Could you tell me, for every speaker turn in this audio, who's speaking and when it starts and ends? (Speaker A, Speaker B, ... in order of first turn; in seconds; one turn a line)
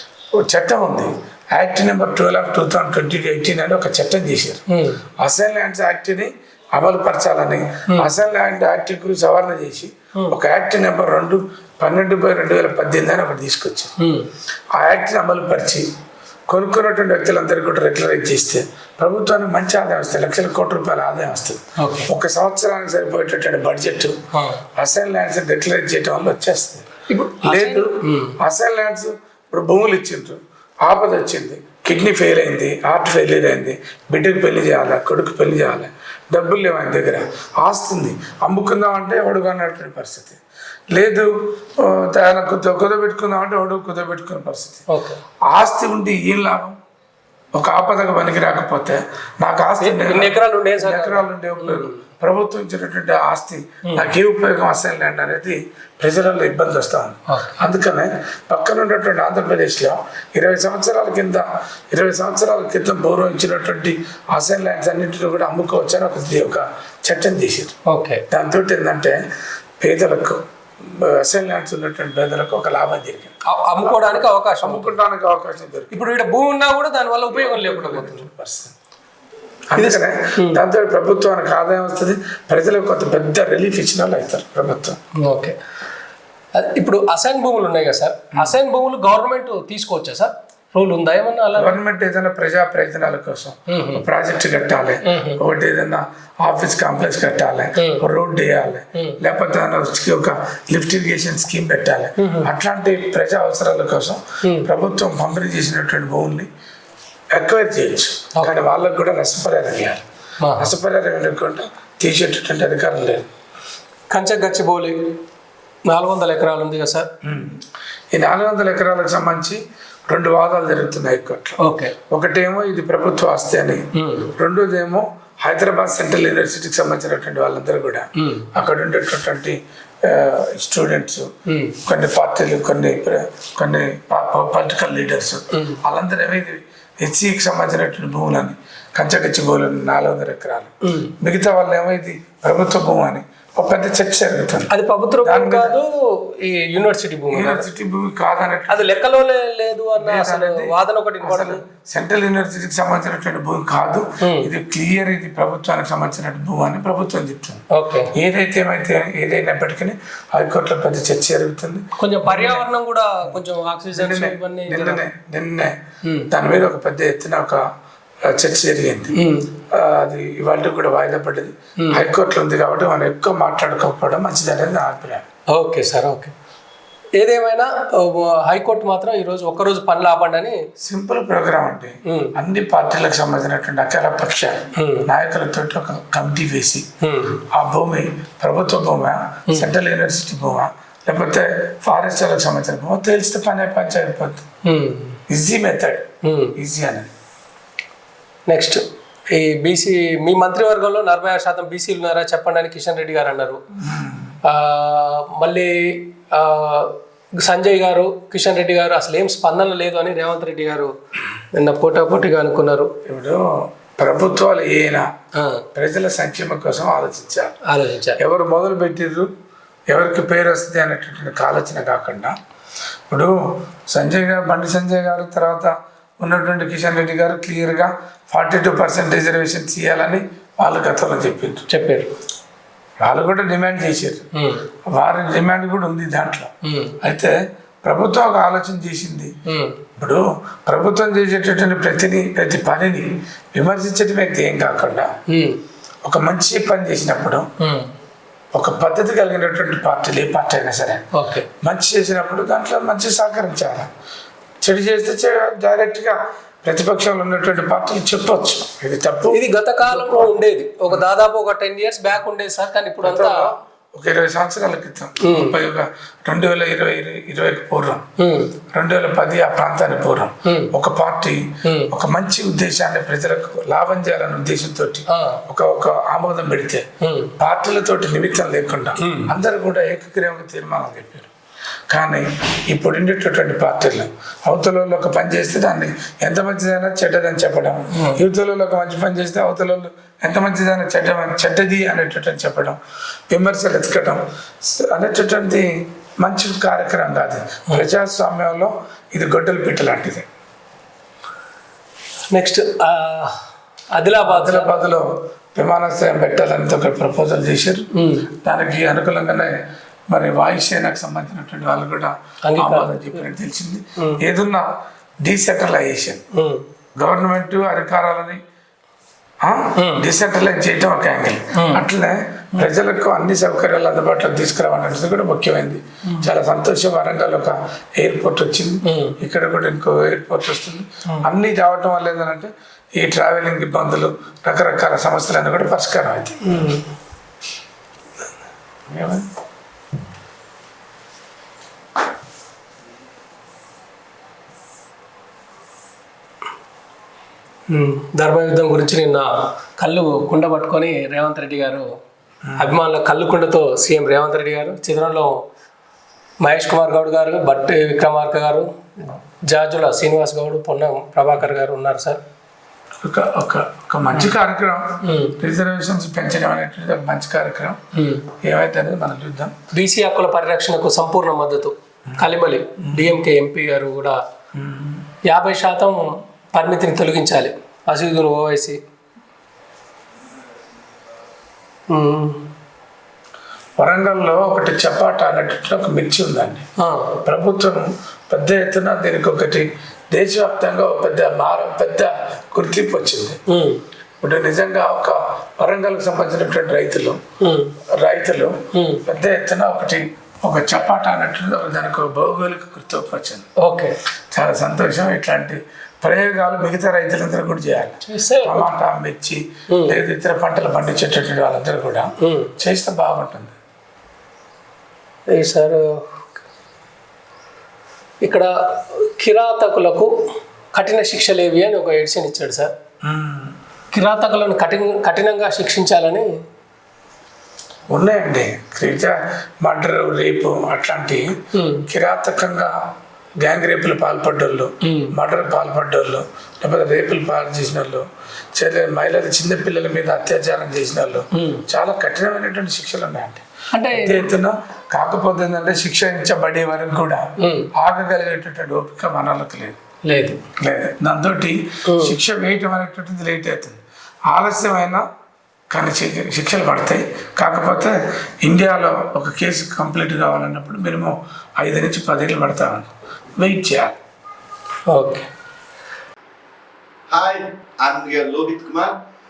Speaker A: 0.4-4.6
Speaker B: 4.7-5.0
Speaker A: 5.2-13.9
Speaker B: 14.0-14.3
Speaker A: 14.8-15.9
Speaker A: 16.5-24.2
Speaker B: 21.8-22.1
Speaker B: 24.3-24.6
Speaker A: 24.7-26.9
Speaker B: 27.1-28.4
Speaker A: 27.4-40.4
Speaker A: 40.9-44.9
Speaker B: 44.9-45.2
Speaker A: 45.5-46.8
Speaker A: 47.5-67.7
Speaker B: 49.8-52.0
Speaker B: 57.3-57.7
Speaker B: 67.9-68.2
Speaker A: 68.3-69.2
Speaker A: 69.8-76.0
Speaker B: 73.5-75.0
Speaker B: 75.9-78.3
Speaker A: 77.3-78.7
Speaker A: 79.7-85.0
Speaker B: 79.8-80.6
Speaker B: 85.2-85.6
Speaker B: 86.5-91.8
Speaker A: 91.5-106.5
Speaker B: 93.7-94.0
Speaker B: 95.0-95.4
Speaker B: 97.8-98.0
Speaker B: 102.2-102.5
Speaker B: 104.4-104.7
Speaker A: 107.3-110.0
Speaker B: 110.4-110.7
Speaker A: 110.6-113.3
Speaker B: 114.1-115.2
Speaker B: 115.9-117.1
Speaker A: 117.2-117.6
Speaker A: 118.1-121.6
Speaker B: 121.6-121.9
Speaker A: 122.1-131.3
Speaker B: 124.0-124.3
Speaker B: 128.2-128.5
Speaker B: 131.5-131.8
Speaker A: 131.8-144.7
Speaker B: 135.5-135.8
Speaker B: 140.9-141.1
Speaker B: 144.7-147.7
Speaker A: 145.2-145.8
Speaker A: 147.3-149.0
Speaker B: 148.7-151.6
Speaker A: 150.0-157.6
Speaker B: 154.2-154.5
Speaker B: 157.7-158.1
Speaker A: 158.1-162.7
Speaker B: 162.0-165.0
Speaker A: 163.9-165.8
Speaker B: 166.0-166.3
Speaker A: 166.3-167.6
Speaker A: 168.3-169.1
Speaker B: 169.2-169.5
Speaker A: 169.7-175.2
Speaker B: 171.8-172.1
Speaker B: 175.5-176.3
Speaker B: 177.2-180.6
Speaker A: 180.8-186.9
Speaker B: 182.1-182.3
Speaker B: 184.8-185.1
Speaker B: 187.0-187.4
Speaker A: 187.5-194.4
Speaker B: 194.6-195.2
Speaker A: 195.3-197.1
Speaker B: 196.2-196.6
Speaker B: 198.5-203.6
Speaker A: 203.8-204.3
Speaker B: 204.4-210.9
Speaker B: 211.5-212.9
Speaker A: 213.1-215.1
Speaker B: 215.4-215.7
Speaker A: 215.8-217.6
Speaker B: 217.7-218.2
Speaker A: 218.2-219.3
Speaker A: 219.9-222.3
Speaker A: 223.9-231.7
Speaker B: 231.7-232.1
Speaker A: 233.0-234.3
Speaker B: 234.4-234.7
Speaker A: 234.9-236.5
Speaker B: 236.7-237.0
Speaker A: 237.0-239.3
Speaker B: 239.5-239.8
Speaker A: 240.0-245.1
Speaker B: 245.3-245.6
Speaker A: 246.0-247.5
Speaker B: 247.6-247.9
Speaker A: 248.5-251.0
Speaker B: 251.1-251.5
Speaker A: 251.6-253.9
Speaker A: 254.6-260.4
Speaker B: 259.3-263.5
Speaker A: 263.0-268.0
Speaker B: 265.2-265.6
Speaker B: 268.2-268.6
Speaker A: 268.7-276.9
Speaker B: 270.5-270.7
Speaker B: 271.6-271.9
Speaker B: 275.1-275.4
Speaker B: 277.0-277.3
Speaker A: 277.4-281.3
Speaker B: 279.0-279.3
Speaker A: 281.9-292.8
Speaker A: 293.3-295.7
Speaker A: 296.2-300.3
Speaker B: 302.3-303.4
Speaker B: 303.9-305.0
Speaker A: 304.3-307.9
Speaker B: 307.9-308.3
Speaker A: 308.4-309.6
Speaker A: 310.1-314.7
Speaker B: 312.4-313.2
Speaker A: 315.2-316.2
Speaker B: 316.3-316.6
Speaker A: 317.0-318.4
Speaker A: 319.4-336.4
Speaker B: 319.8-320.1
Speaker B: 321.6-321.9
Speaker B: 328.9-329.2
Speaker B: 336.4-336.9
Speaker A: 338.9-339.3
Speaker B: 347.7-351.9
Speaker A: 352.4-352.8
Speaker B: 352.6-355.3
Speaker B: 356.4-362.2
Speaker A: 363.0-367.8
Speaker B: 365.0-365.4
Speaker B: 368.0-368.3
Speaker A: 368.4-369.5
Speaker B: 369.7-374.2
Speaker A: 372.8-373.1
Speaker A: 374.6-375.0
Speaker B: 375.3-378.8
Speaker B: 381.9-382.4
Speaker A: 383.8-386.6
Speaker B: 386.8-387.2
Speaker A: 387.2-393.4
Speaker B: 393.5-393.8
Speaker A: 394.2-397.2
Speaker B: 397.4-397.8
Speaker A: 398.0-403.5
Speaker B: 398.7-399.0
Speaker B: 403.6-404.0
Speaker A: 404.3-413.6
Speaker B: 408.1-408.7
Speaker B: 409.7-410.0
Speaker B: 412.2-412.5
Speaker B: 415.3-416.2
Speaker B: 418.2-420.1
Speaker B: 420.7-422.7
Speaker A: 423.0-423.6
Speaker B: 423.9-426.3
Speaker A: 427.9-431.3
Speaker B: 431.5-431.9
Speaker A: 431.9-432.7
Speaker A: 433.4-447.2
Speaker B: 434.8-435.1
Speaker B: 441.4-441.6
Speaker B: 443.7-444.3
Speaker B: 447.4-447.7
Speaker A: 447.8-449.8
Speaker B: 450.1-450.4
Speaker A: 450.6-455.0
Speaker B: 451.9-452.2
Speaker A: 455.7-464.0
Speaker B: 464.9-465.3
Speaker C: 467.1-469.0